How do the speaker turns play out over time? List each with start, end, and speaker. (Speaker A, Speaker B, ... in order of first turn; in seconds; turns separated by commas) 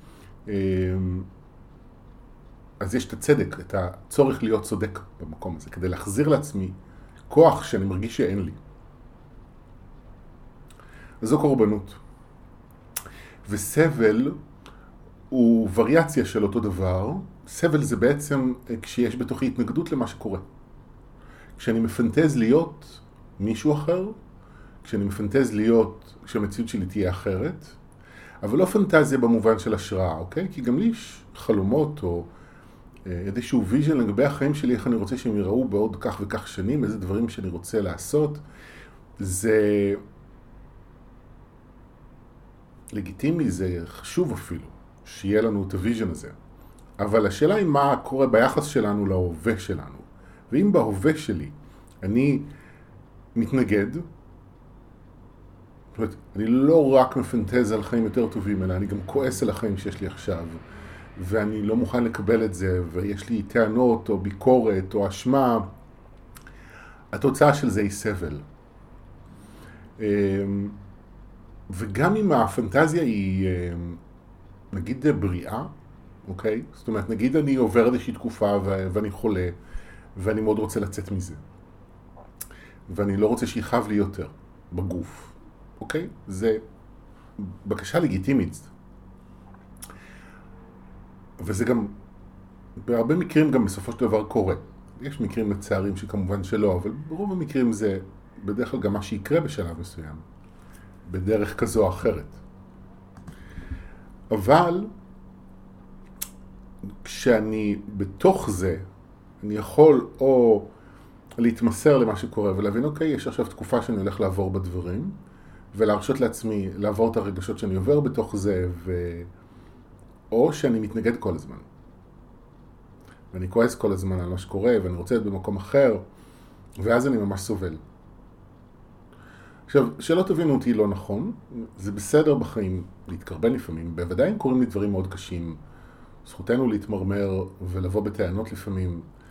Speaker A: 0.5-1.3, Speaker A: 2.8-6.8, Speaker A: 7.3-8.6, Speaker A: 11.2-12.0, Speaker A: 13.4-14.4, Speaker A: 15.3-20.4, Speaker A: 21.6-24.2, Speaker A: 24.8-27.8, Speaker A: 28.4-32.3, Speaker A: 33.1-38.4, Speaker A: 39.2-40.0, Speaker A: 42.9-46.4, Speaker A: 47.0-52.5, Speaker A: 53.4-54.1, Speaker A: 55.9-60.6, Speaker A: 61.2-65.7, Speaker A: 67.1-68.5, Speaker A: 70.0-70.8, Speaker A: 71.7-74.0, Speaker A: 74.7-75.7, Speaker A: 76.3-79.6, Speaker A: 80.2-81.4, Speaker A: 82.9-86.6, Speaker A: 87.4-88.7, Speaker A: 91.4-91.9, Speaker A: 92.8-100.2, Speaker A: 101.1-102.4, Speaker A: 104.3-104.9, Speaker A: 107.0-108.8, Speaker A: 109.4-110.7, Speaker A: 111.4-115.2, Speaker A: 115.7-119.3, Speaker A: 120.3-121.7, Speaker A: 123.3-126.0, Speaker A: 126.8-127.8, Speaker A: 129.7-135.6, Speaker A: 136.2-139.1